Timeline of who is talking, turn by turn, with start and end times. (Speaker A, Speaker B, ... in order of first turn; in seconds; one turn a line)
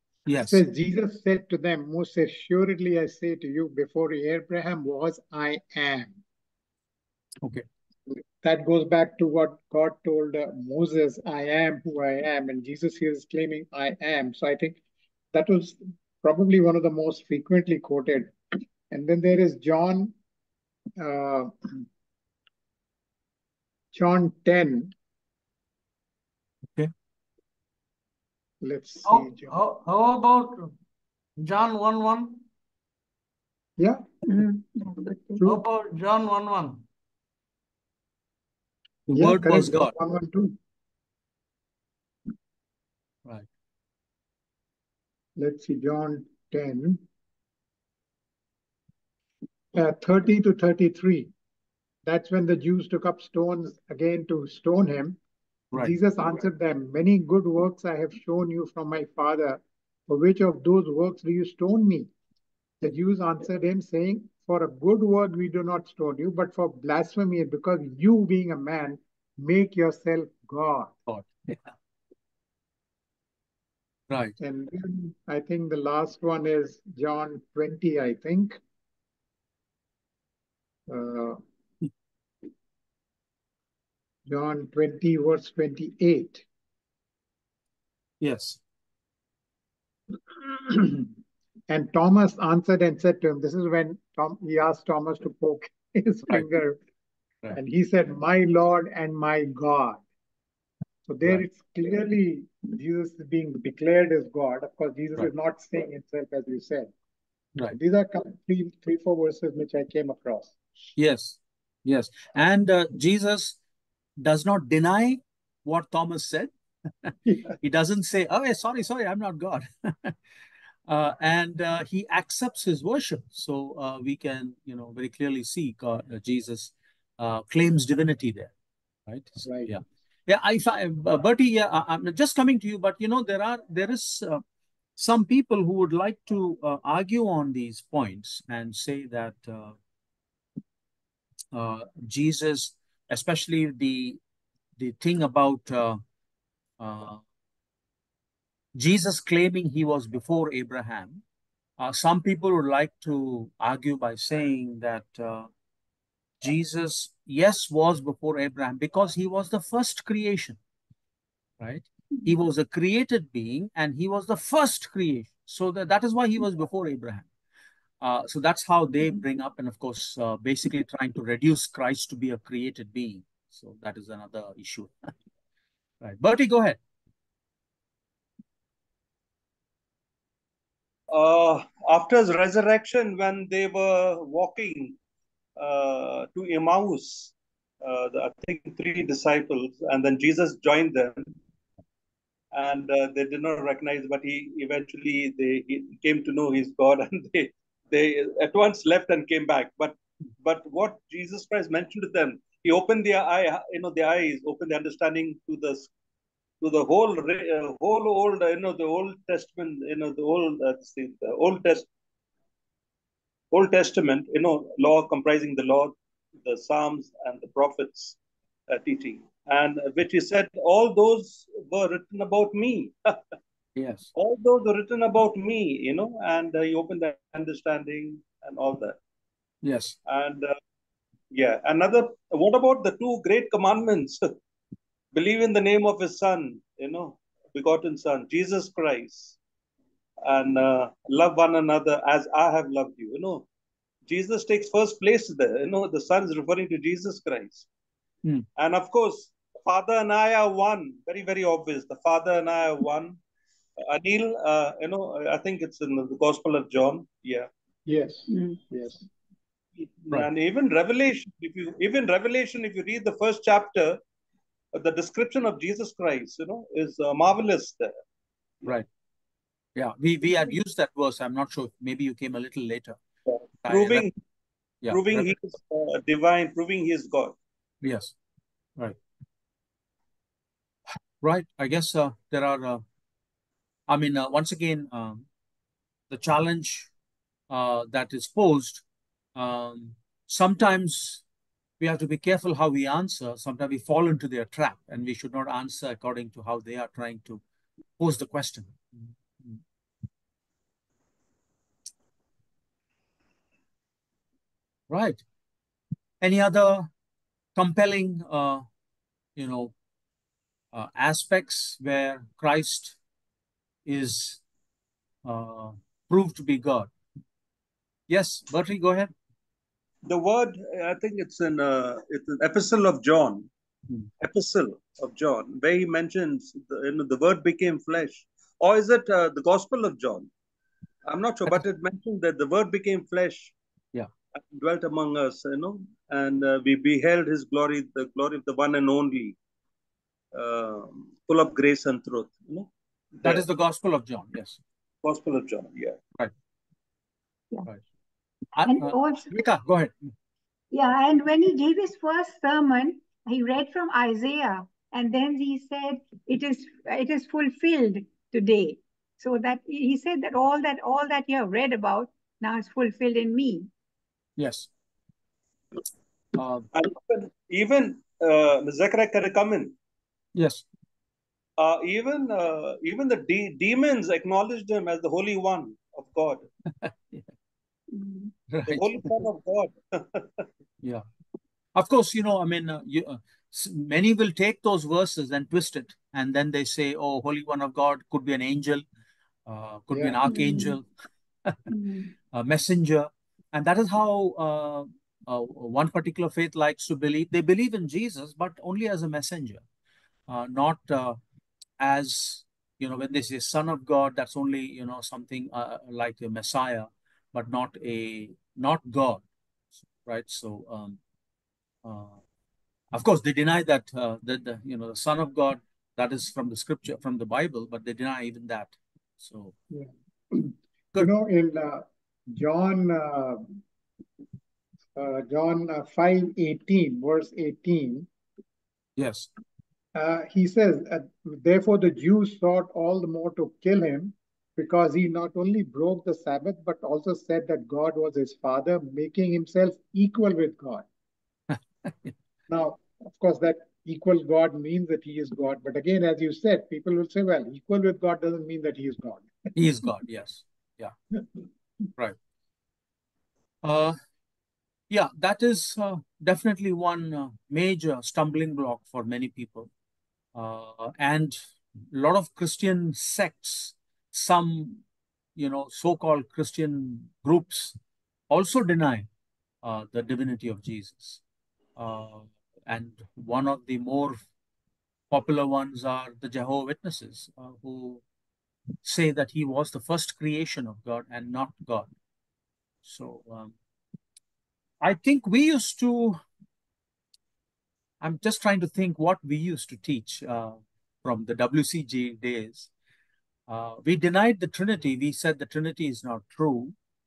Speaker A: 0.3-0.6
Speaker B: 0.5-6.2
Speaker B: 8.1-14.8
Speaker B: 15.3-18.3
Speaker B: 18.9-20.1
Speaker B: 21.0-21.9
Speaker B: 23.9-24.9
Speaker B: 28.6-29.6
Speaker C: 29.1-30.7
Speaker C: 31.4-32.4
Speaker B: 33.8-34.6
Speaker D: 34.4-35.4
Speaker C: 35.4-36.8
Speaker A: 39.1-39.9
Speaker B: 39.1-40.6
Speaker B: 45.4-47.0
Speaker B: 49.7-51.3
Speaker B: 52.0-55.2
Speaker B: 55.8-62.1
Speaker B: 62.8-70.9
Speaker A: 71.1-71.6
Speaker B: 74.4-78.6
Speaker B: 80.9-81.4
Speaker B: 84.3-86.4
Speaker A: 88.2-88.6
Speaker B: 90.3-91.1
Speaker B: 91.7-96.8
Speaker B: 97.5-100.0
Speaker B: 101.1-106.9
Speaker B: 107.7-110.5
Speaker A: 111.0-113.6
Speaker A: 114.2-116.5
Speaker A: 117.0-120.2
Speaker B: 117.3-117.5
Speaker A: 120.9-128.5
Speaker A: 129.1-134.4
Speaker B: 129.4-129.8
Speaker A: 135.0-139.8
Speaker A: 141.5-144.2
Speaker A: 144.8-146.0
Speaker A: 146.8-147.2
Speaker A: 148.8-151.2
Speaker A: 151.8-155.5
Speaker A: 156.4-160.6
Speaker A: 161.6-167.3
Speaker A: 168.0-175.1
Speaker A: 176.0-176.8
Speaker E: 181.1-185.0
Speaker E: 185.6-191.3
Speaker E: 192.5-205.9
Speaker E: 206.6-211.9
Speaker E: 213.5-218.2
Speaker E: 218.7-223.2
Speaker A: 223.8-224.1
Speaker E: 224.2-229.0
Speaker A: 229.6-229.9
Speaker E: 230.1-230.5
Speaker E: 231.3-234.2
Speaker E: 235.1-239.4
Speaker E: 240.2-243.5
Speaker E: 244.1-247.7
Speaker E: 248.6-253.2
Speaker E: 253.8-257.5
Speaker B: 257.9-259.1
Speaker D: 258.3-258.6
Speaker E: 259.8-264.0
Speaker E: 264.7-267.9
Speaker A: 269.8-273.0
Speaker E: 273.3-274.1
Speaker A: 273.6-274.1
Speaker A: 274.8-275.3
Speaker E: 274.9-277.4
Speaker A: 277.8-278.1
Speaker A: 281.2-282.8
Speaker A: 283.9-285.3
Speaker A: 286.1-286.9
Speaker A: 287.5-288.8
Speaker A: 289.4-291.2
Speaker A: 291.8-297.4
Speaker A: 298.0-299.6
Speaker A: 304.9-305.2
Speaker A: 306.2-306.9
Speaker A: 307.6-308.6
Speaker A: 309.4-309.7
Speaker A: 310.7-313.0
Speaker A: 313.9-314.4
Speaker A: 315.2-316.9
Speaker A: 318.1-319.1
Speaker E: 320.1-323.5
Speaker E: 324.2-330.3
Speaker E: 331.1-333.5
Speaker E: 334.5-339.4
Speaker E: 340.3-343.4
Speaker A: 343.2-344.6
Speaker E: 345.0-346.0
Speaker A: 348.6-349.9
Speaker D: 348.6-349.3
Speaker D: 350.7-363.7
Speaker A: 364.4-364.7
Speaker A: 366.4-366.7
Speaker E: 366.7-369.8
Speaker A: 370.4-370.6
Speaker E: 371.6-376.5
Speaker A: 376.8-377.2
Speaker D: 377.9-378.3
Speaker A: 378.5-379.2
Speaker E: 378.7-380.5
Speaker A: 381.8-388.9
Speaker A: 389.5-390.9
Speaker B: 389.9-390.5
Speaker D: 390.2-390.8
Speaker D: 391.7-392.1
Speaker A: 392.3-399.6
Speaker A: 400.3-401.2
Speaker A: 401.8-409.2
Speaker A: 410.0-411.0
Speaker A: 411.9-412.2
Speaker A: 412.9-419.5
Speaker B: 419.7-423.6
Speaker B: 425.0-428.1
Speaker A: 429.0-429.3
Speaker B: 429.9-440.9
Speaker A: 441.9-442.1
Speaker B: 442.5-449.3
Speaker A: 449.6-450.9
Speaker A: 453.6-454.0
Speaker A: 454.9-459.7
Speaker A: 460.4-461.4
Speaker A: 461.9-464.8
Speaker A: 465.4-467.8
Speaker A: 468.3-469.1
Speaker A: 469.6-471.2
Speaker A: 471.8-474.2
Speaker A: 475.1-478.0
Speaker A: 478.8-481.9
Speaker A: 482.8-483.5
Speaker A: 484.8-486.2
Speaker A: 488.0-492.7
Speaker A: 493.5-496.8